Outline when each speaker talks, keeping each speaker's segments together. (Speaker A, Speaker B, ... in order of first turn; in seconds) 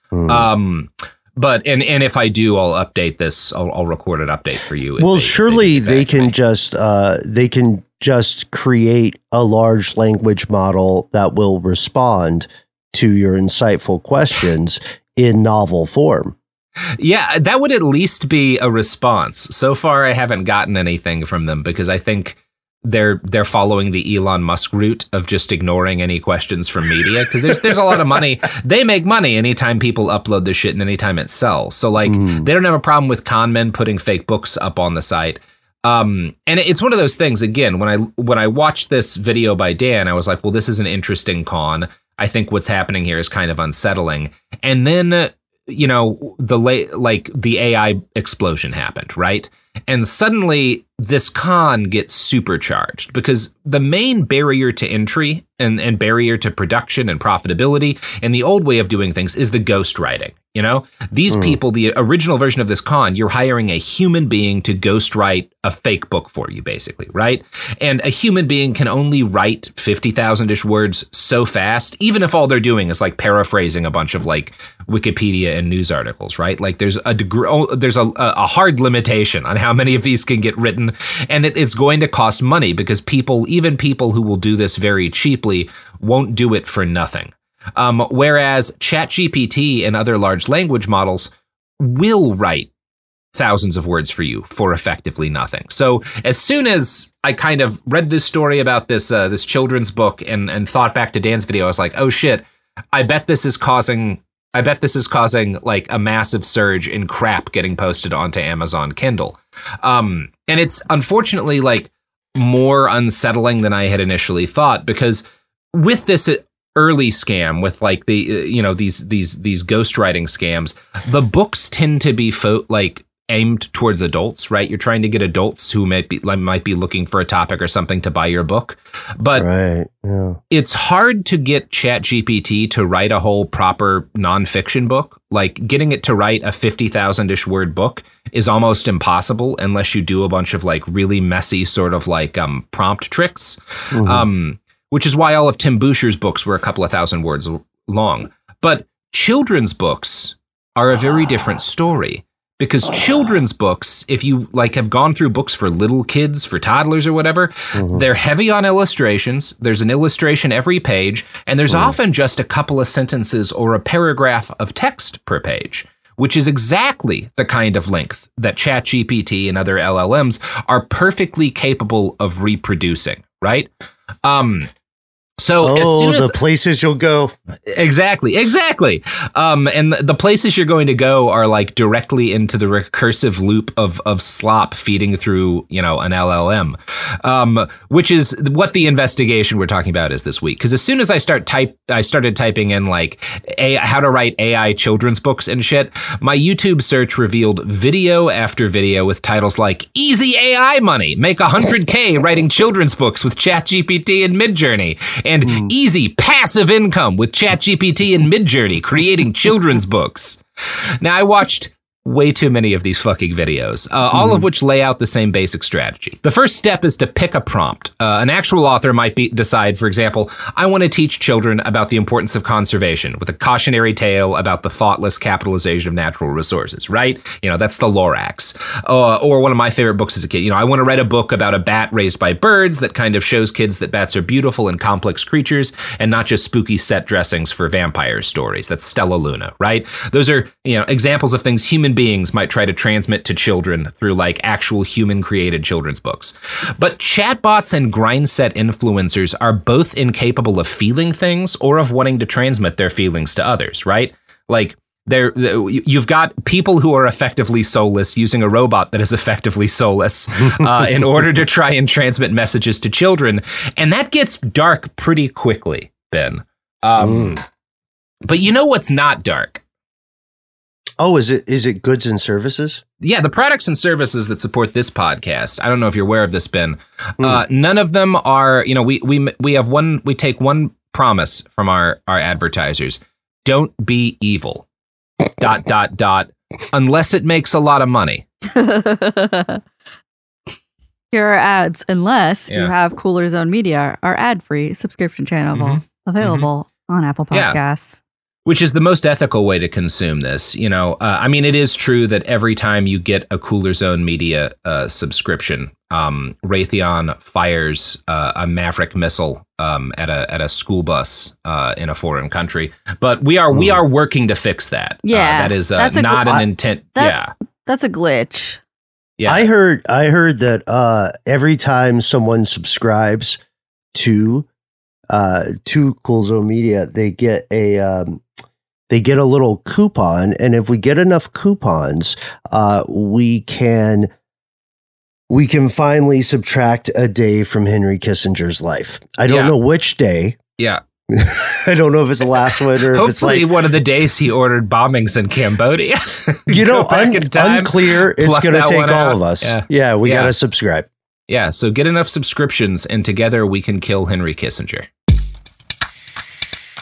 Speaker A: 0.1-0.5, 5.0-16.4, 32.1-32.5, 61.3-61.6, 129.4-130.4, 143.9-144.3, 152.8-153.3, 157.7-158.0, 161.7-161.9, 175.6-177.3, 214.1-214.4, 267.0-267.4, 271.0-272.8, 313.5-313.8, 319.2-323.4, 323.9-324.5, 325.1-328.2, 328.9-334.1, 335.3-340.4, 341.1-343.5, 346.5-350.9
Speaker B: 0.2-6.3, 17.0-92.7, 93.3-129.5, 130.5-173.7, 174.2-174.7, 175.4-176.4, 177.7-210.4, 211.0-267.4, 268.2-269.6, 273.0-284.6, 285.4-288.2, 295.5-296.5, 297.3-297.6, 298.4-317.3, 319.2-319.4, 339.2-339.5, 342.9-350.3, 351.3-354.9
Speaker C: 288.5-289.6, 291.1-298.0, 315.0-316.4, 316.9-318.6